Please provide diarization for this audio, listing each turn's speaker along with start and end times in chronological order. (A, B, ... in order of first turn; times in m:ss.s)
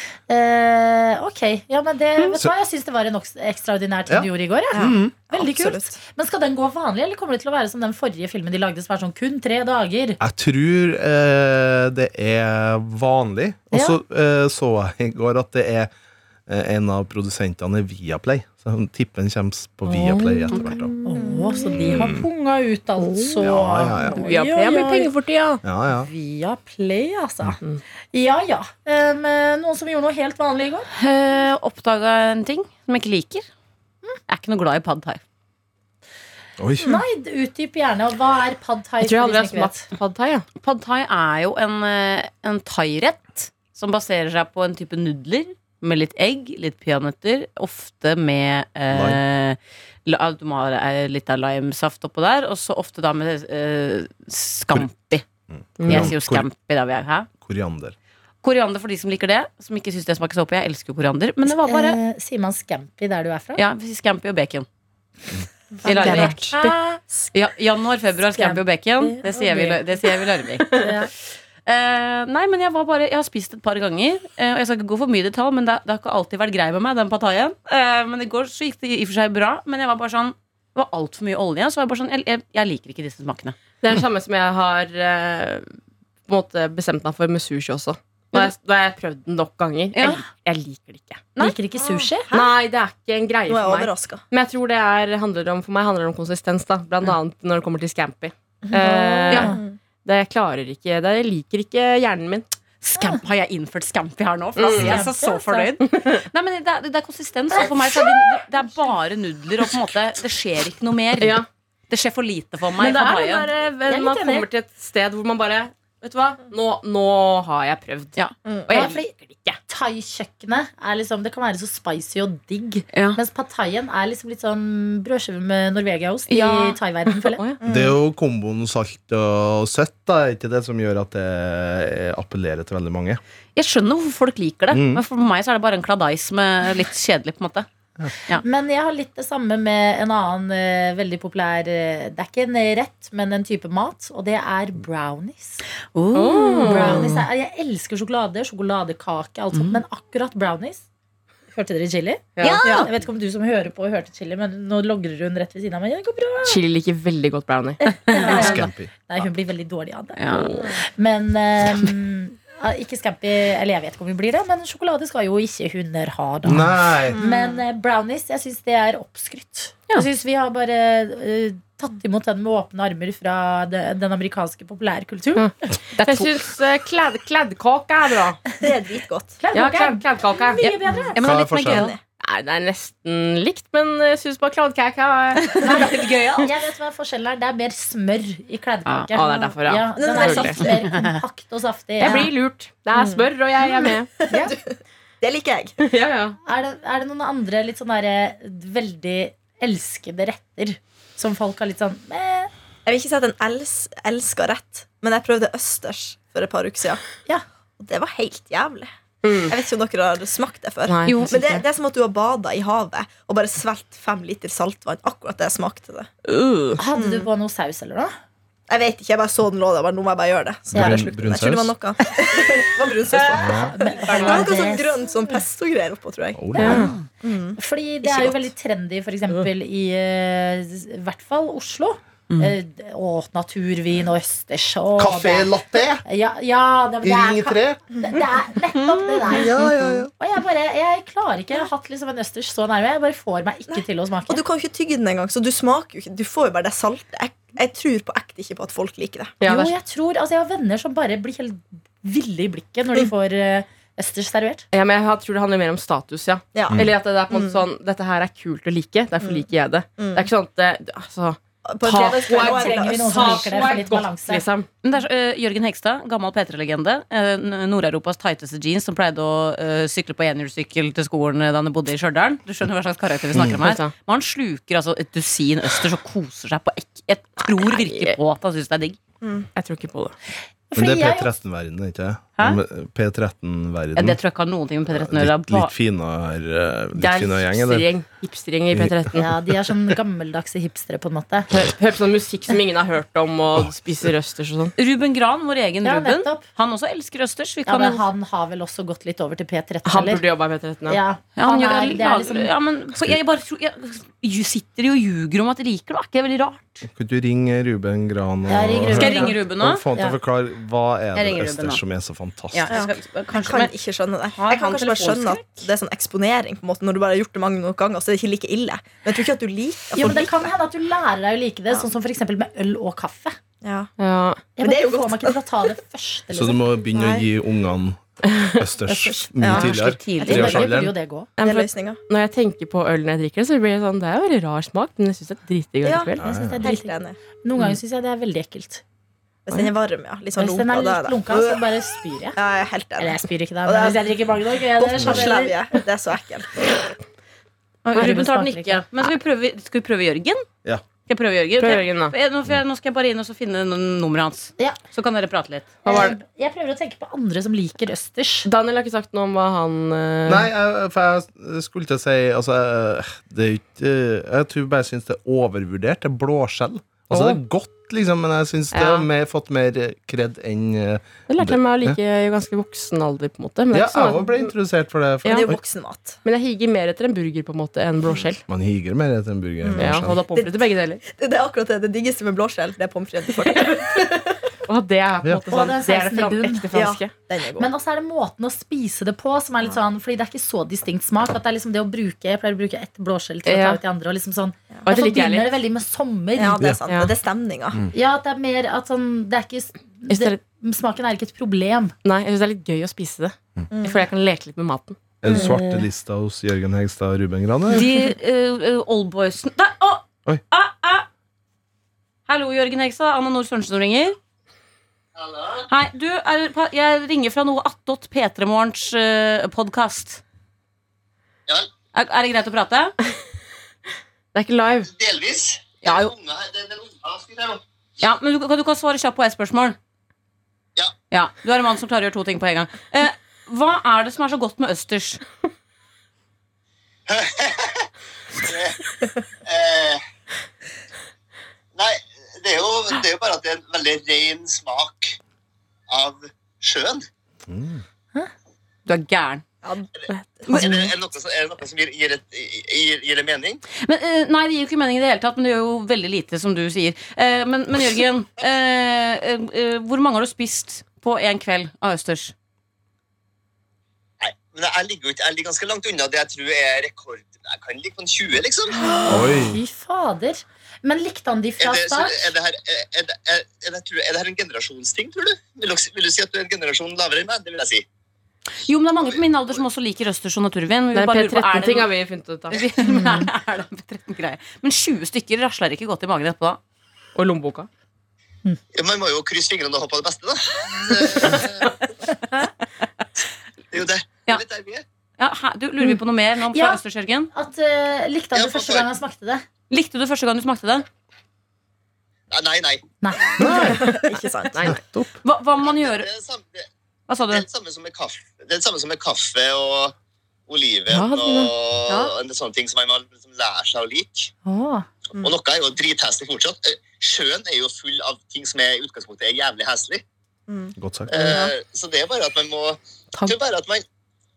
0:00.3-0:10.2 A
0:04.1-0:05.1 B
0:04.7-0:06.0 C
0:10.2-0:15.9 B
0:13.7-0:14.0 A
0:16.5-0:20.9 B
0:19.9-0:20.7 D
0:21.0-0:25.1 A
0:21.1-0:21.8 C
0:21.7-0:22.2 B
0:23.4-0:24.2 B
0:24.2-0:25.6 D
0:25.6-0:26.1 B
0:25.9-0:27.6 A
0:28.1-0:30.9 A
0:31.0-0:33.4 E
0:34.3-0:35.2 E
0:36.6-0:36.9 B
0:36.8-0:39.8 A
0:39.0-0:40.4 D
0:40.6-0:55.2 E
0:48.9-0:49.2 B
0:55.5-0:56.5 B
0:55.8-0:56.1 D
0:55.8-0:57.3 E
0:57.4-0:58.0 B
0:58.4-1:02.0 E
1:01.6-1:03.6 A
1:03.5-1:04.6 E
1:05.8-1:06.6 E
1:05.8-1:07.0 A
1:05.8-1:06.5 C
1:07.3-1:10.9 E
1:08.4-1:09.8 A
1:10.7-1:11.1 A
1:11.6-1:23.6 E
1:23.8-1:25.7 D
1:26.3-1:31.3 D
1:29.9-1:30.2 E
1:31.4-1:32.3 A
1:31.8-1:32.5 C
1:32.3-1:42.4 D
1:33.5-1:34.2 C
1:38.6-1:39.8 C
1:38.8-1:39.6 A
1:42.8-1:53.5 E
1:44.6-1:45.0 D
1:44.7-1:45.8 A
1:45.8-1:46.2 D
1:51.2-1:51.4 D
1:52.8-1:58.2 D
1:53.9-1:54.4 A
1:58.7-1:59.6 D
1:58.7-1:59.1 A
1:59.7-2:07.4 A
2:02.9-2:03.2 E
2:06.3-2:06.8 E
2:07.6-2:08.0 C
2:07.6-2:13.2 B
2:13.6-2:17.6 E
2:14.7-2:15.0 B
2:18.4-2:25.6 A
2:25.9-2:27.2 E
2:26.1-2:27.1 D
2:26.6-2:30.8 A
2:29.5-2:29.8 E
2:31.5-2:36.6 A
2:32.4-2:32.6 D
2:32.4-2:32.9 E
2:32.6-2:32.9 C
2:36.4-2:37.8 D
2:38.0-2:38.6 E
2:38.1-2:55.5 A
2:38.3-2:38.9 B
2:40.2-2:40.5 E
2:40.3-2:40.6 D
2:46.4-2:47.2 B
2:47.1-2:47.6 C
2:55.4-2:58.4 D
2:56.0-2:56.3 E
2:58.6-2:59.4 C
2:59.4-3:01.2 A
2:59.5-3:00.8 D
3:01.1-3:01.9 E
3:01.2-3:01.9 B
3:01.3-3:02.0 C
3:02.2-3:05.9 D
3:05.4-3:06.5 E
3:05.6-3:12.3 A
3:09.1-3:10.6 D
3:09.4-3:10.7 C
3:10.8-3:11.2 E
3:12.0-3:14.1 D
3:12.9-3:15.8 C
3:14.3-3:14.5 A
3:15.8-3:16.4 D
3:16.4-3:22.5 A
3:22.8-3:27.1 C
3:27.8-3:36.1 C
3:29.2-3:29.5 D
3:30.9-3:31.6 D
3:31.0-3:31.4 E
3:36.2-3:36.8 D
3:36.8-3:38.1 A
3:36.9-3:37.3 C
3:38.7-3:48.5 C
3:40.7-3:41.7 B
3:40.7-3:41.0 A
3:43.3-3:43.7 B
3:43.5-3:45.4 A
3:44.1-3:44.4 D
3:46.3-3:46.9 B
3:46.5-3:46.9 A
3:46.6-3:46.9 D
3:46.7-3:46.9 E
3:47.6-3:59.5 A
3:52.3-3:52.6 E
3:55.0-3:56.0 B
3:57.0-3:57.8 B
3:59.3-4:00.1 B
4:00.2-4:04.4 A
4:03.7-4:09.3 C
4:09.4-4:09.7 D
4:09.4-4:14.6 A
4:14.7-4:24.7 D
4:16.5-4:17.6 C
4:19.2-4:20.3 C
4:21.6-4:23.8 C
4:22.3-4:24.4 A
4:24.8-4:39.0 E
4:33.3-4:33.6 B
4:33.6-4:33.9 D
4:37.7-4:38.1 D
4:39.2-4:39.5 C
4:39.6-4:40.1 D
4:40.7-4:41.3 A
4:40.7-4:44.2 B
4:44.0-4:45.7 E
4:44.9-4:47.9 B
4:47.0-4:49.3 D
4:48.7-4:49.1 B
4:49.1-4:51.5 A
4:51.5-4:54.7 D
4:54.8-4:58.0 E
4:55.8-4:56.4 A
4:57.6-5:00.2 A
4:59.8-5:01.0 D
5:00.9-5:02.5 A
5:01.4-5:06.8 E
5:06.9-5:12.7 B
5:08.5-5:09.4 A
5:08.9-5:09.8 E
5:11.1-5:11.8 E
5:12.5-5:13.7 E
5:12.7-5:20.5 C
5:14.3-5:15.7 E
5:19.9-5:23.4 A
5:23.6-5:23.9 C
5:24.0-5:24.4 D
5:24.6-5:26.6 A
5:24.6-5:25.4 C
5:26.3-5:30.9 B
5:26.9-5:27.3 C
5:28.3-5:28.5 D
5:28.9-5:29.5 A
5:29.4-5:29.7 C
5:29.5-5:30.6 E
5:30.2-5:31.3 A
5:31.4-5:36.2 D
5:31.4-5:32.0 C
5:35.8-5:37.2 C
5:36.2-5:36.6 B
5:36.2-5:38.8 A
5:39.4-5:41.6 C
5:40.4-5:42.4 A
5:42.4-5:44.2 C
5:43.0-5:45.6 A
5:44.8-5:46.9 C
5:45.0-5:45.3 B
5:47.8-5:50.4 E
5:47.9-5:48.8 A
5:51.0-5:55.8 E
5:51.6-5:52.1 D
5:55.8-5:56.2 D
5:55.8-5:58.5 A
5:58.4-6:00.5 D
6:00.2-6:12.0 B
6:07.1-6:07.4 D
6:08.7-6:09.1 D
6:11.3-6:14.5 D
6:13.7-6:15.6 B
6:15.2-6:15.5 D
6:15.2-6:16.2 C
6:16.2-6:18.4 D
6:18.5-6:20.2 B
6:19.6-6:24.4 C
6:19.8-6:21.0 D
6:23.4-6:24.0 D
6:24.7-6:27.1 D
6:25.5-6:26.7 A
6:26.7-6:27.7 C
6:27.6-6:36.6 A
6:33.4-6:33.8 D
6:34.8-6:35.6 D
6:36.4-6:37.8 C
6:36.9-6:37.1 D
6:37.9-6:41.9 A
6:40.1-6:40.4 D
6:42.0-6:45.0 D
6:43.7-6:44.0 C
6:45.2-6:47.9 B
6:45.3-6:45.8 A
6:47.7-6:51.0 E
6:52.3-6:54.2 E
6:55.2-6:55.6 F
6:55.7-7:00.2 E
7:01.9-7:02.9 E
7:04.3-7:04.9 D
7:04.8-7:07.6 F
7:05.8-7:06.1 E
7:08.0-7:09.8 E
7:11.1-7:15.2 E
7:17.1-7:17.9 F
7:18.4-7:18.8 F
7:19.4-7:20.0 F
7:21.7-7:25.2 F
7:25.9-7:27.0 F
7:27.5-7:27.8 B
7:28.8-7:29.4 E
7:29.6-7:30.7 C
7:30.5-7:30.8 E
7:30.5-7:33.6 F
7:33.7-7:42.3 E
7:44.2-7:48.8 F
7:48.8-7:52.2 A
7:49.1-7:49.6 B
7:51.6-7:57.8 F
7:58.6-8:01.9 E
7:59.0-7:59.6 F
8:00.9-8:02.6 D
8:02.5-8:06.6 E
8:02.8-8:03.3 A
8:07.2-8:07.7 D
8:08.7-8:11.7 F
8:13.7-8:14.8 F
8:15.2-8:17.3 E
8:16.5-8:16.8 A
8:17.3-8:19.4 A
8:18.3-8:18.9 F
8:19.7-8:20.8 E
8:22.3-8:22.9 F
8:23.0-8:23.7 A
8:23.4-8:24.0 B
8:23.4-8:24.7 C
8:24.5-8:24.8 D
8:24.6-8:25.2 B
8:25.2-8:26.1 E
8:25.6-8:26.6 F
8:27.1-8:27.4 E
8:27.3-8:29.9 F
8:30.5-8:34.3 F
8:30.9-8:32.0 D
8:34.4-8:34.8 A
8:35.2-8:40.0 F
8:40.5-8:41.5 C
8:40.8-8:41.1 B
8:41.1-8:43.8 F